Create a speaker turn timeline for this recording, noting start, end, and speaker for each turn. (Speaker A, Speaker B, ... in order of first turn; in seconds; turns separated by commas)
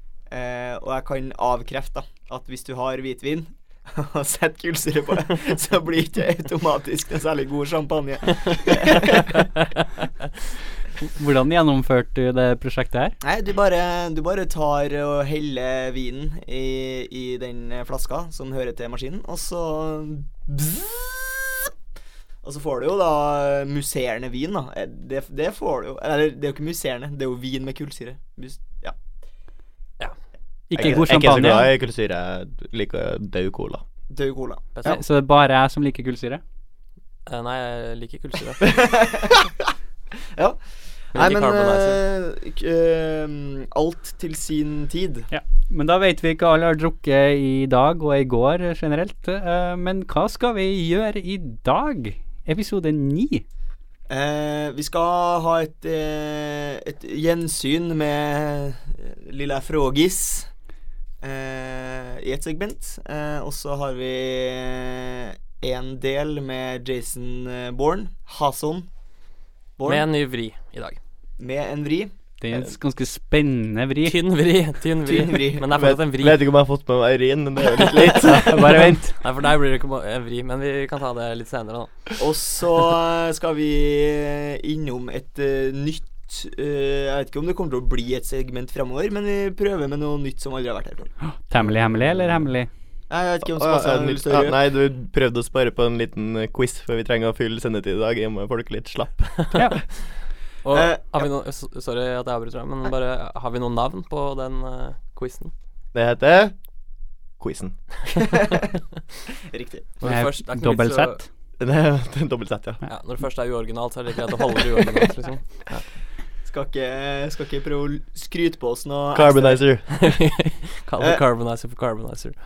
Speaker A: 0.3-9.5, Speaker B: 11.1-13.2, Speaker A: 13.2-21.7, Speaker A: 22.4-28.9, Speaker B: 30.7-31.7, Speaker C: 30.8-33.8, Speaker A: 34.1-34.7, Speaker D: 34.8-35.0, Speaker B: 34.8-36.4, Speaker D: 37.3-38.8, Speaker A: 38.6-39.5, Speaker D: 41.1-42.0, Speaker A: 41.1-45.3, Speaker B: 45.3-53.4, Speaker A: 54.1-60.5, Speaker A: 61.2-68.9, Speaker A: 69.8-70.1, Speaker D: 69.8-71.0, Speaker A: 71.4-72.1, Speaker B: 72.4-74.2, Speaker D: 74.0-76.4, Speaker A: 75.0-75.7, Speaker C: 75.7-79.0, Speaker B: 78.2-79.2, Speaker D: 79.2-82.0, Speaker A: 82.2-91.1, Speaker B: 91.2-92.7, Speaker C: 91.7-92.4, Speaker A: 93.1-94.6, Speaker C: 93.4-99.7, Speaker B: 99.5-99.8, Speaker D: 100.6-105.5, Speaker A: 100.7-101.2, Speaker C: 105.9-106.5, Speaker C: 107.4-107.8, Speaker A: 108.1-108.7, Speaker A: 109.3-109.9, Speaker D: 110.0-111.2, Speaker B: 110.0-111.2, Speaker C: 111.6-112.8, Speaker D: 112.8-115.8, Speaker A: 116.4-119.6, Speaker C: 119.1-120.1, Speaker D: 119.9-122.3